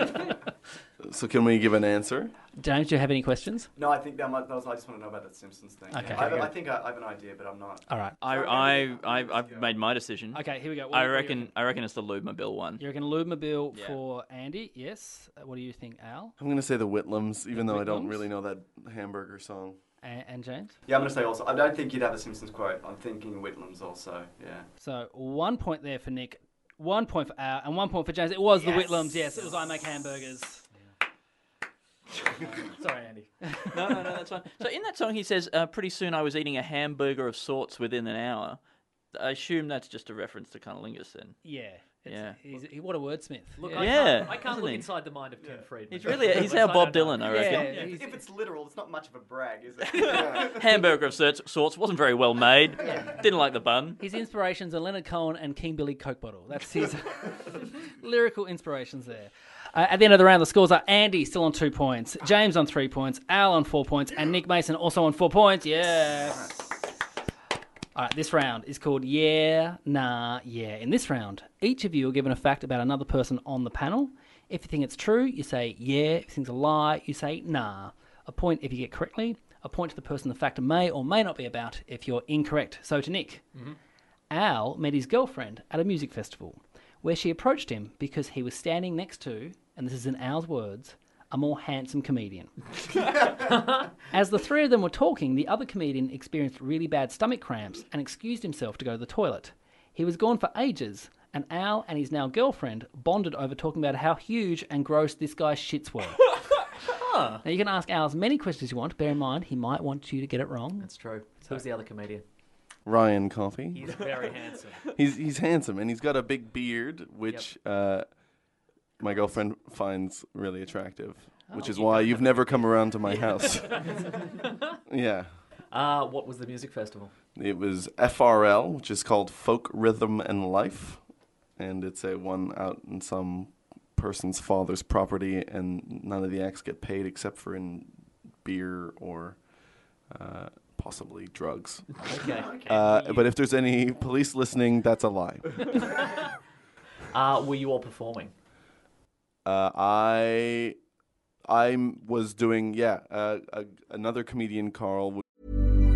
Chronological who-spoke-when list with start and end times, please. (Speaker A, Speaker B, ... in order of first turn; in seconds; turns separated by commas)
Speaker A: 1.0-2.3, Speaker B: 2.5-3.7, Speaker C: 3.8-9.8, Speaker B: 5.9-6.6, Speaker B: 7.9-8.2, Speaker D: 8.2-12.8, Speaker B: 10.3-11.5, Speaker B: 12.8-16.3, Speaker D: 13.7-14.0, Speaker A: 16.4-19.8, Speaker B: 17.5-18.2, Speaker B: 20.0-20.8, Speaker C: 20.9-24.7, Speaker B: 24.8-30.6, Speaker C: 28.6-29.3, Speaker E: 32.4-33.3, Speaker B: 33.5-33.9, Speaker D: 33.7-38.6, Speaker D: 39.1-41.4, Speaker B: 41.4-44.5, Speaker D: 42.0-42.4, Speaker E: 43.6-47.9, Speaker D: 43.7-44.9, Speaker C: 45.4-46.1, Speaker D: 45.9-47.8, Speaker B: 47.2-48.2, Speaker C: 47.7-50.9, Speaker D: 49.9-54.0, Speaker A: 50.1-50.4, Speaker B: 52.8-53.2, Speaker B: 54.0-66.7, Speaker B: 67.9-83.5, Speaker B: 84.3-92.5, Speaker B: 94.1-106.2, Speaker E: 106.9-107.4, Speaker B: 107.4-110.9, Speaker E: 110.8-112.2, Speaker A: 112.8-114.0, Speaker E: 113.7-114.9, Speaker A: 114.9-118.1, Speaker A: 119.0-124.0, Speaker B: 121.5-121.8, Speaker E: 121.5-122.4, Speaker E: 123.0-124.7, Speaker A: 124.9-125.3, Speaker E: 125.7-127.1, Speaker A: 127.3-131.0, Speaker A: 131.6-137.9, Speaker A: 138.4-139.4, Speaker A: 140.1-145.8, Speaker E: 142.0-143.3, Speaker E: 147.1-148.3, Speaker A: 149.4-150.8, Speaker A: 151.4-155.2